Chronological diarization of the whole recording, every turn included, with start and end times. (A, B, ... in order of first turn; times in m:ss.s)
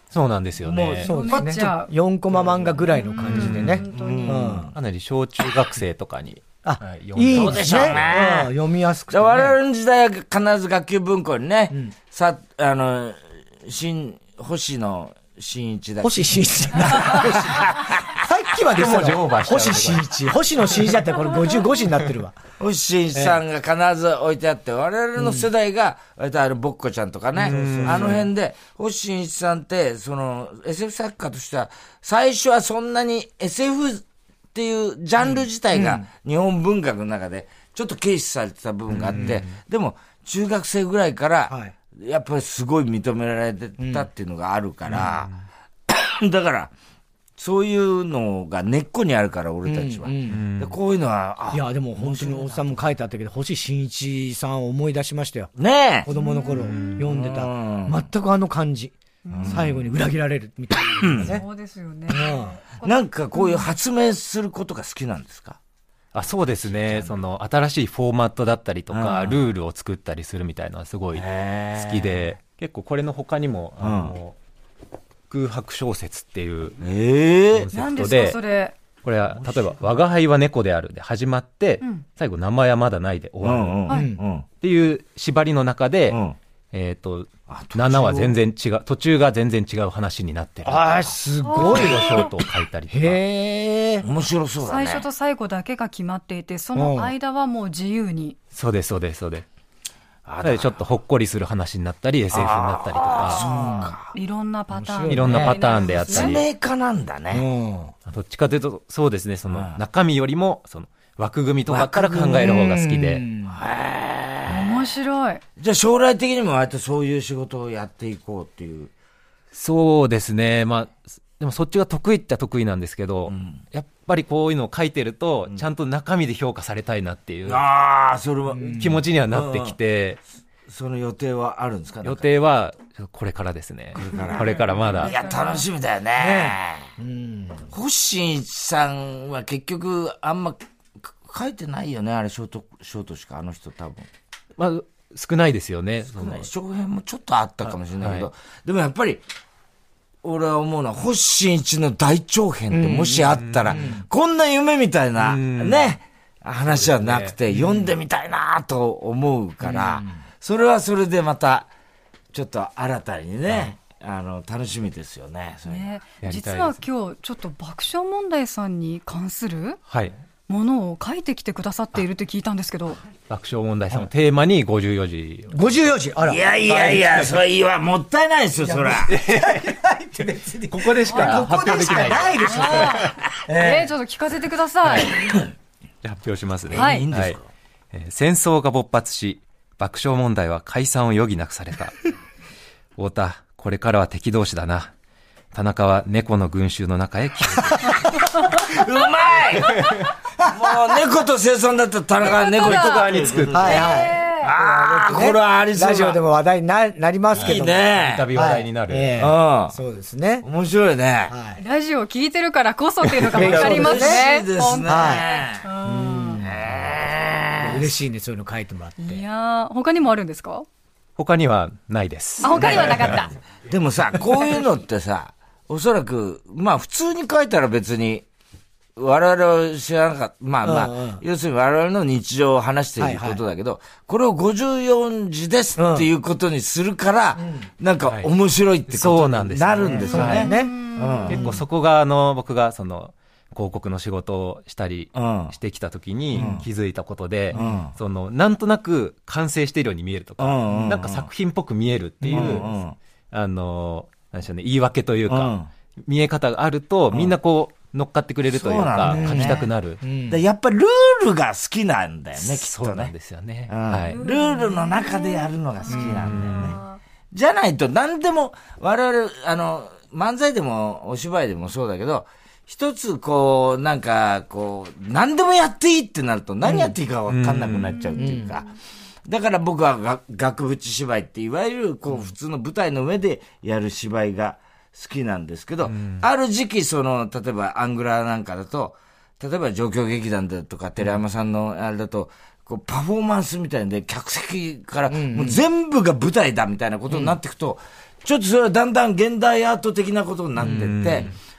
0:00.1-0:01.1 A
0:00.6-0:01.7 B
0:01.0-0:04.7 C
0:01.1-0:01.9 D
0:02.9-0:04.4 D
0:03.3-0:03.8 A
0:03.9-0:04.7 B
0:04.7-0:08.3 A
0:06.6-0:09.6 C
0:07.3-0:08.5 B
0:09.1-0:18.2 B
0:16.0-0:22.4 C
0:18.8-0:20.1 A
0:22.6-0:45.3 B
0:25.2-0:25.5 C
0:27.4-0:28.2 A
0:27.4-0:28.3 C
0:35.2-0:36.0 C
0:38.9-0:39.6 A
0:39.1-0:39.4 C
0:43.8-0:44.1 C
0:45.0-0:45.3 A
0:45.9-0:46.7 B
0:47.4-0:52.8 B
0:49.6-0:50.4 C
0:50.3-0:50.8 A
0:51.5-0:59.0 C
0:55.6-0:56.1 B
0:56.1-0:57.0 D
0:56.7-0:57.0 A
0:57.0-0:58.0 B
0:59.2-0:59.7 D
0:59.3-0:59.8 B
0:59.5-1:01.4 C
1:01.0-1:01.3 B
1:01.2-1:03.7 D
1:02.1-1:02.6 C
1:02.8-1:05.6 B
1:06.1-1:14.4 A
1:06.6-1:07.1 B
1:08.9-1:09.4 B
1:11.1-1:12.2 B
1:13.8-1:14.2 B
1:15.3-1:16.8 A
1:16.8-1:17.7 B
1:17.5-1:18.4 A
1:17.7-1:18.8 D
1:19.0-1:23.8 A
1:19.3-1:19.8 B
1:23.4-1:24.5 B
1:23.9-1:24.2 C
1:24.6-1:26.2 A
1:26.1-1:26.4 B
1:26.7-1:33.2 A
1:27.5-1:28.3 B
1:30.6-1:31.9 B
1:31.2-1:32.3 C
1:31.4-1:32.2 D
1:32.9-1:34.1 C
1:34.0-1:35.1 B
1:34.6-1:38.4 D
1:36.8-1:37.2 C
1:38.5-1:39.4 A
1:40.3-1:40.9 B
1:40.4-1:43.5 A
1:42.3-1:44.1 B
1:43.3-1:43.9 C
1:44.1-1:46.4 D
1:44.9-1:45.6 C
1:45.0-1:46.4 A
1:46.0-1:47.5 B
1:47.3-1:47.9 C
1:48.1-1:53.2 A
1:49.5-1:49.8 B
1:51.7-1:53.6 C
1:53.5-1:54.9 B
1:54.5-1:55.4 D
1:55.6-1:58.9 B
1:59.5-2:07.6 A
2:03.3-2:03.6 B
2:07.5-2:09.8 B
2:08.5-2:09.0 C
2:08.7-2:10.2 A
2:10.7-2:12.3 B
2:12.0-2:15.1 A
2:14.0-2:16.9 B
2:14.8-2:15.7 D
2:16.2-2:17.7 C
2:17.7-2:24.1 B
2:24.6-2:26.5 A
2:26.1-2:29.2 B
2:27.6-2:28.3 A
2:30.2-2:41.7 B
2:32.7-2:34.0 C
2:33.4-2:34.0 A
2:35.2-2:36.0 A
2:36.6-2:37.4 A
2:39.6-2:40.2 C
2:42.3-2:45.9 B
2:45.7-2:49.8 D
2:46.2-2:46.8 A
2:49.9-2:50.1 A
2:50.5-2:53.0 D
2:53.3-2:56.0 A
2:55.5-2:57.1 C
2:56.2-2:59.1 B
2:58.6-3:03.9 C
2:59.1-2:59.8 A
3:00.7-3:03.1 A
3:01.2-3:02.0 B
3:02.4-3:05.3 D
3:06.0-3:07.4 A
3:06.7-3:07.4 B
3:06.7-3:07.0 D
3:07.9-3:12.0 A
3:13.0-3:14.9 A
3:15.5-3:18.1 A
3:18.5-3:26.2 B
3:19.7-3:20.0 A
3:22.3-3:23.1 D
3:22.6-3:23.8 A
3:23.5-3:30.5 C
3:23.6-3:24.5 D
3:27.3-3:28.3 B
3:27.4-3:29.3 A
3:29.2-3:29.8 B
3:30.4-3:31.4 B
3:31.3-3:31.6 C
3:31.6-3:36.4 D
3:33.2-3:34.0 A
3:33.3-3:34.2 C
3:33.4-3:35.7 B
3:34.9-3:35.3 C
3:35.8-3:37.1 C
3:36.4-3:37.9 B
3:37.6-3:39.2 C
3:39.0-3:40.7 D
3:41.2-3:43.2 A
3:42.4-3:43.3 D
3:42.5-3:48.3 B
3:49.0-4:01.5 B
3:50.6-3:51.2 C
3:53.0-3:53.4 C
3:55.8-3:56.1 C
3:57.4-3:57.7 C
3:58.9-4:00.5 A
4:00.1-4:01.3 D
4:00.1-4:00.8 C
4:01.3-4:12.7 A
4:01.3-4:01.6 C
4:05.2-4:05.6 B
4:06.3-4:06.7 B
4:07.5-4:07.9 B
4:10.4-4:11.3 B
4:12.2-4:12.7 C
4:12.3-4:13.0 B
4:13.3-4:20.0 A
4:15.3-4:15.7 B
4:18.5-4:19.7 B
4:19.0-4:20.4 C
4:20.3-4:23.1 B
4:22.4-4:24.2 A
4:23.7-4:26.8 B
4:24.1-4:27.0 D
4:25.9-4:26.4 C
4:26.3-4:26.8 A
4:27.3-4:38.7 B
4:36.6-4:36.9 C
4:37.3-4:38.1 A
4:38.0-4:38.5 D
4:38.2-4:38.6 C
4:39.3-5:01.3 B
4:45.9-4:46.3 A
4:55.1-4:55.6 C
5:00.6-5:01.3 A